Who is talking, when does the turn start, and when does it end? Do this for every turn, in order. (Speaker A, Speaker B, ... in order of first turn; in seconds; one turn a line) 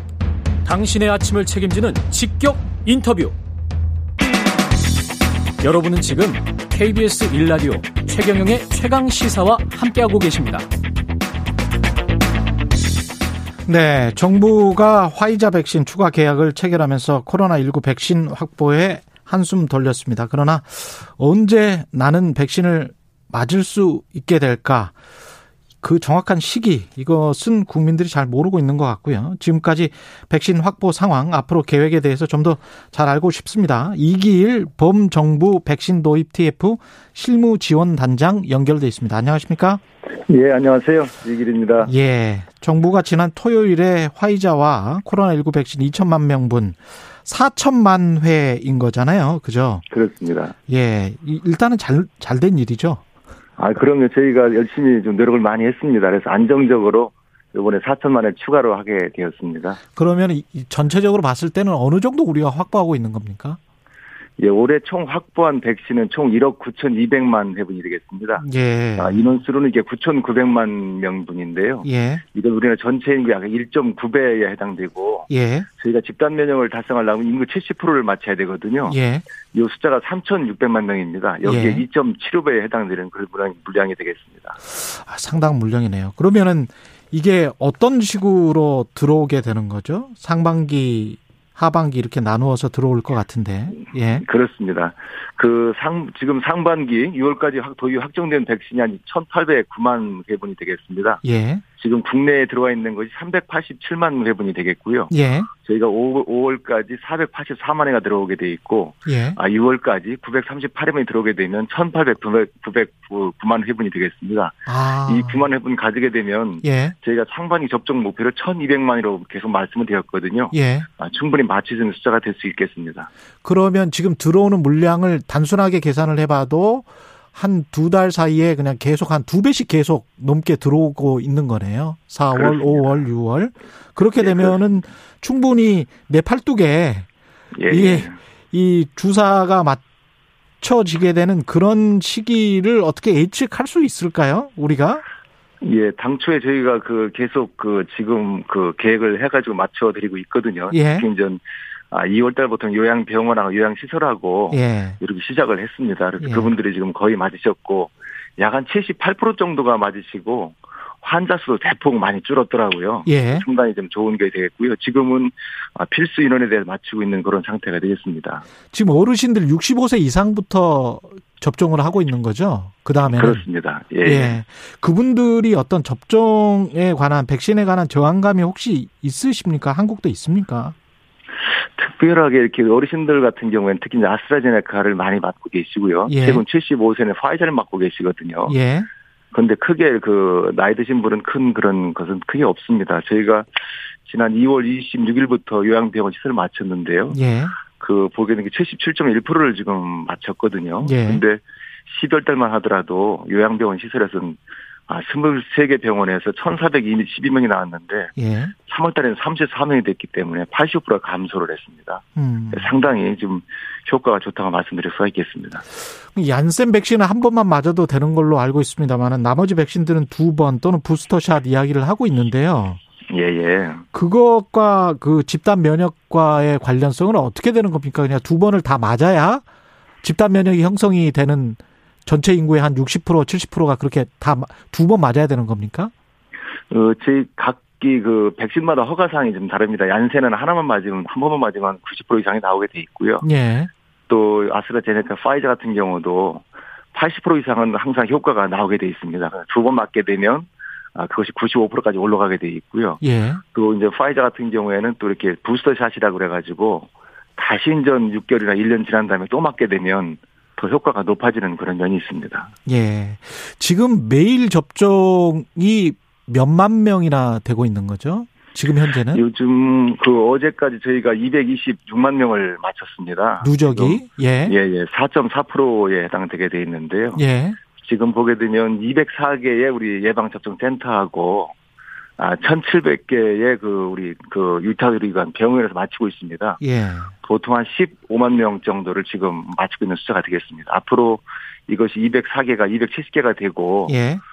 Speaker A: 0.6-3.4
Speaker A: 5.6-10.7
Speaker B: 13.7-24.9
Speaker B: 25.8-39.8
Speaker C: 40.3-41.9
Speaker B: 41.8-49.8
Speaker C: 49.9-50.5
Speaker B: 50.7-53.0
Speaker C: 53.6-59.8
Speaker B: 60.0-63.6
Speaker C: 64.4-79.0
Speaker B: 68.4-69.3
Speaker B: 71.8-72.2
Speaker B: 75.3-75.7
Speaker B: 78.9-79.2
Speaker C: 79.5-84.6
Speaker B: 81.4-81.8
Speaker B: 84.7-94.2
Speaker C: 93.8-101.2
Speaker B: 101.2-101.6
Speaker C: 101.8-123.1
Speaker B: 105.1-105.5
Speaker B: 109.0-109.4
Speaker B: 114.7-115.4
Speaker B: 116.6-116.9
Speaker B: 120.5-120.9
Speaker B: 123.4-137.1
Speaker C: 132.3-133.1
Speaker C: 134.2-134.6
Speaker C: 137.5-138.2
Speaker B: 137.7-139.8
Speaker B: 140.6-145.0
Speaker C: 145.6-168.4
Speaker B: 150.7-151.1
Speaker B: 154.5-155.0
Speaker B: 156.2-156.5
Speaker B: 163.1-163.4
Speaker B: 168.7-173.4
Speaker C: 173.1-174.4
Speaker B: 174.0-180.7
Speaker C: 181.8-188.5
Speaker B: 186.1-186.4
Speaker B: 188.5-188.9
Speaker C: 189.3-193.5
Speaker C: 194.0-197.2
Speaker B: 197.1-197.6
Speaker C: 197.7-215.6
Speaker B: 200.8-201.2
Speaker B: 208.2-208.5
Speaker B: 212.2-212.7
Speaker B: 216.1-222.8
Speaker C: 223.1-223.8
Speaker B: 223.9-229.4
Speaker B: 230.0-235.9
Speaker C: 236.7-243.3
Speaker B: 243.2-243.7
Speaker C: 244.1-253.0
Speaker B: 253.0-253.4
Speaker C: 253.5-262.5
Speaker B: 262.7-269.2
Speaker C: 269.1-277.2
Speaker B: 273.4-274.6
Speaker B: 277.1-277.6
Speaker C: 277.8-281.5
Speaker C: 282.2-286.6
Speaker B: 286.6-287.1
Speaker C: 287.2-293.9
Speaker B: 293.9-294.2